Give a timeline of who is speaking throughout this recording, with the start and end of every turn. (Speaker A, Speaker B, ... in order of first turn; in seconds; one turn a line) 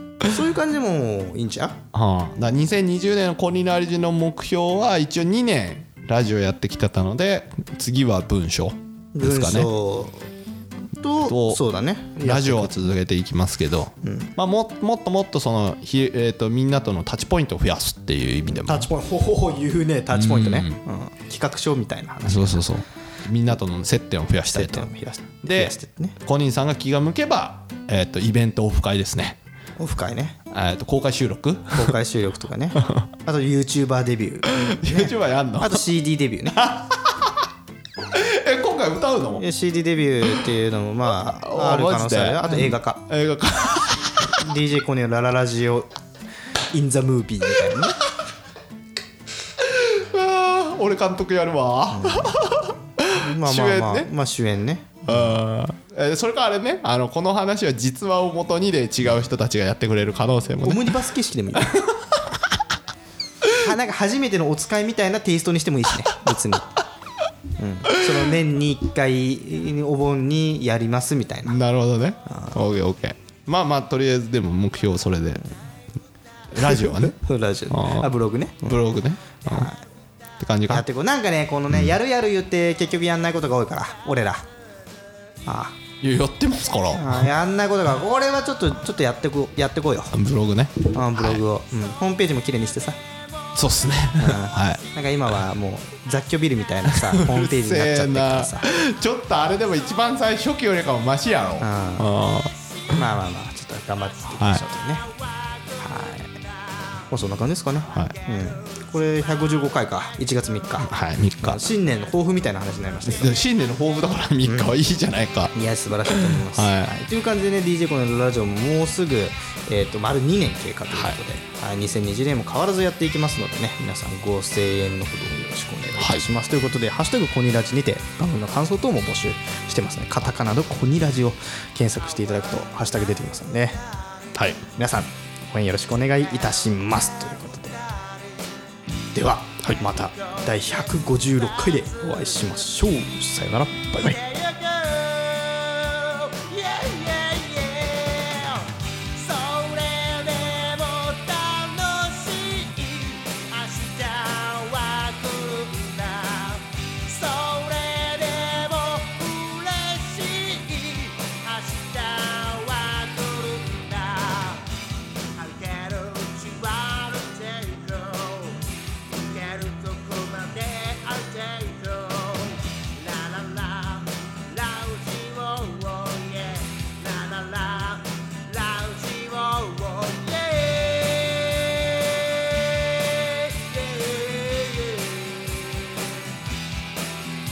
Speaker A: 0.2-1.8
Speaker B: 1.9-9.7
Speaker A: 9.2-10.3
Speaker A: 11.0-12.8
Speaker B: 11.2-11.6
Speaker B: 12.2-18.9
Speaker A: 14.0-14.3
Speaker A: 18.6-22.7
Speaker B: 20.1-20.8
Speaker B: 22.2-24.9
Speaker A: 24.5-26.2
Speaker B: 25.4-29.4
Speaker A: 29.8-30.4
Speaker B: 30.5-32.0
Speaker A: 31.7-36.6
Speaker B: 34.5-35.8
Speaker B: 36.5-37.3
Speaker B: 38.1-39.4
Speaker A: 39.4-43.0
Speaker B: 41.4-44.4
Speaker A: 44.3-45.9
Speaker A: 46.7-48.0
Speaker B: 49.6-54.1
Speaker A: 51.9-55.4
Speaker B: 55.1-61.0
Speaker A: 60.6-61.8
Speaker B: 61.6-62.6
Speaker A: 63.5-66.7
Speaker A: 67.6-71.6
Speaker B: 71.5-75.4
Speaker A: 72.3-72.6
Speaker B: 76.5-78.1
Speaker A: 76.6-78.8
Speaker B: 78.6-79.7
Speaker A: 79.5-79.8
Speaker B: 80.4-80.9
Speaker A: 80.7-84.5
Speaker B: 81.7-82.0
Speaker A: 85.5-85.8
Speaker B: 86.0-87.3
Speaker A: 87.0-90.2
Speaker B: 90.1-91.4
Speaker A: 90.9-93.0
Speaker B: 93.5-94.8
Speaker A: 94.2-98.7
Speaker B: 96.8-103.0
Speaker A: 101.6-102.2
Speaker A: 102.9-105.1
Speaker B: 104.4-104.6
Speaker C: 105.0-107.1
Speaker A: 105.8-106.3
Speaker A: 107.1-113.4
Speaker B: 110.8-111.6
Speaker B: 113.0-115.5
Speaker A: 114.4-114.7
Speaker A: 115.5-133.8
Speaker B: 116.1-117.0
Speaker B: 120.9-121.2
Speaker B: 126.0-126.2
Speaker B: 134.3-134.6
Speaker A: 134.7-137.8
Speaker C: 137.8-138.5
Speaker A: 139.1-144.2
Speaker C: 139.8-142.4
Speaker C: 144.0-164.7
Speaker C: 165.3-186.3